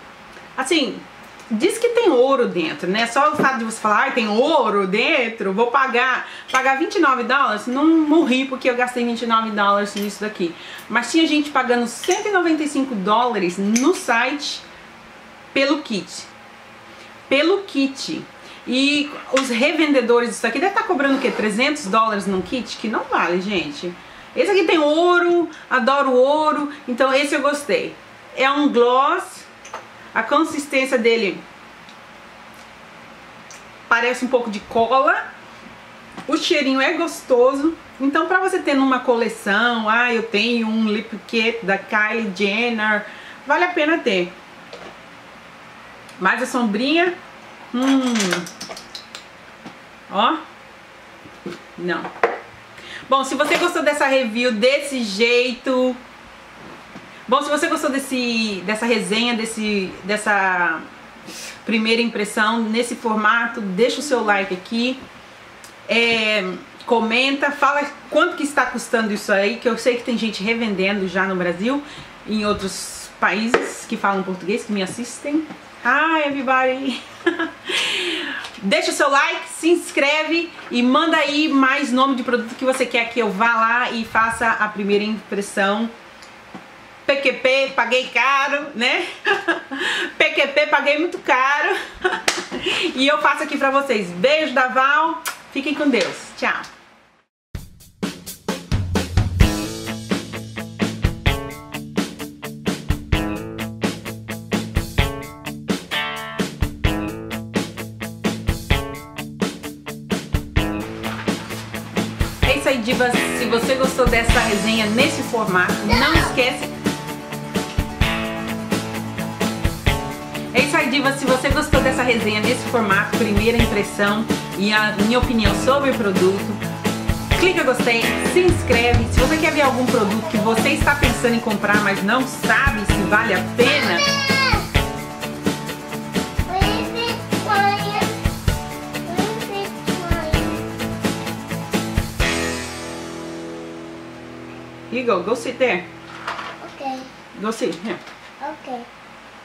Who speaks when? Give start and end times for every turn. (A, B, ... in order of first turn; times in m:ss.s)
0:00.6-0:14.6 A
0:15.5-0:16.3 A
0:17.3-0:29.5 A
0:30.1-0:31.4 A
0:33.9-0:35.2 A
0:36.3-0:44.3 A
0:46.2-0:47.2 A
0:47.7-0:48.5 A
0:50.1-0:50.4 A
0:51.8-0:52.1 A
0:53.1-0:56.0 A
0:57.2-1:00.8 A
1:01.6-1:05.0 A
1:05.9-1:25.9 A
1:27.0-1:36.7 A
1:52.4-1:56.7 A
2:00.5-2:06.6 A
2:07.3-2:14.1 A
2:14.0-2:14.7 B
2:16.4-2:18.2 B
2:19.0-2:20.6 B
2:24.9-2:25.9 A
2:26.6-2:27.1 B
2:27.3-2:28.0 A
2:28.4-2:28.9 B